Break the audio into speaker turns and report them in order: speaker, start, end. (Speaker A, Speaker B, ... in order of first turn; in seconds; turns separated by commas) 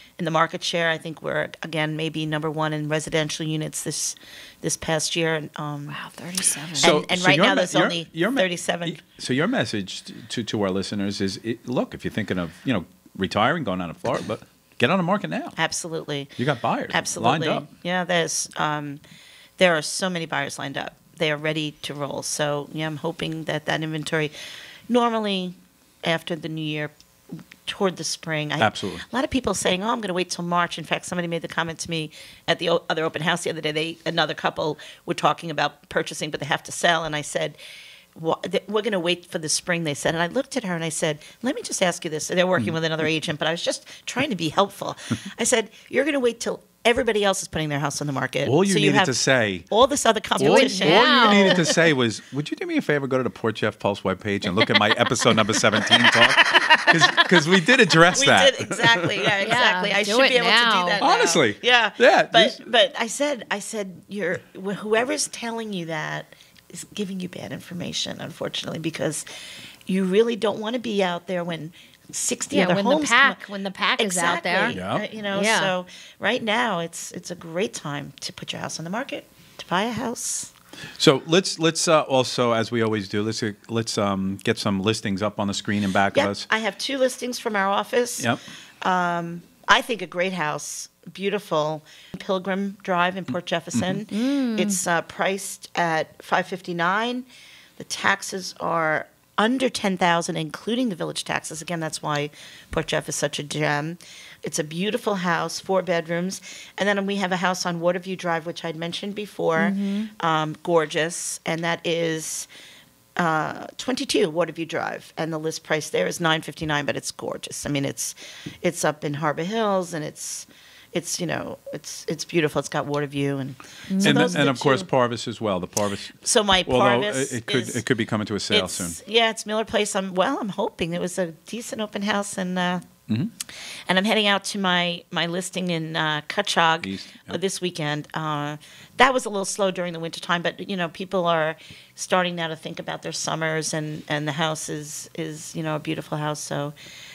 Speaker A: 0.2-6.0, Speaker B: 5.9-6.9, Speaker C: 6.8-15.6, Speaker A: 6.8-9.0, Speaker A: 15.6-16.4, Speaker C: 16.4-17.7, Speaker A: 16.9-19.0, Speaker A: 19.6-24.3, Speaker A: 24.9-37.6, Speaker C: 28.6-29.0, Speaker A: 38.1-51.7, Speaker C: 48.4-49.6, Speaker B: 50.4-51.7, Speaker C: 50.4-59.3, Speaker A: 56.4-57.2, Speaker A: 58.1-69.3, Speaker B: 59.4-61.0, Speaker C: 61.0-62.6, Speaker A: 69.9-73.4, Speaker B: 72.5-74.8, Speaker A: 74.0-80.5, Speaker C: 74.7-75.0, Speaker B: 75.3-75.7, Speaker C: 81.0-86.5, Speaker A: 86.1-97.2, Speaker C: 93.7-94.0, Speaker B: 94.1-94.8, Speaker A: 97.8-112.5, Speaker B: 109.6-110.1, Speaker A: 113.2-124.9, Speaker B: 123.9-124.5, Speaker C: 124.0-129.0, Speaker A: 126.2-127.8, Speaker A: 128.5-132.8, Speaker A: 133.9-146.8, Speaker C: 136.8-137.4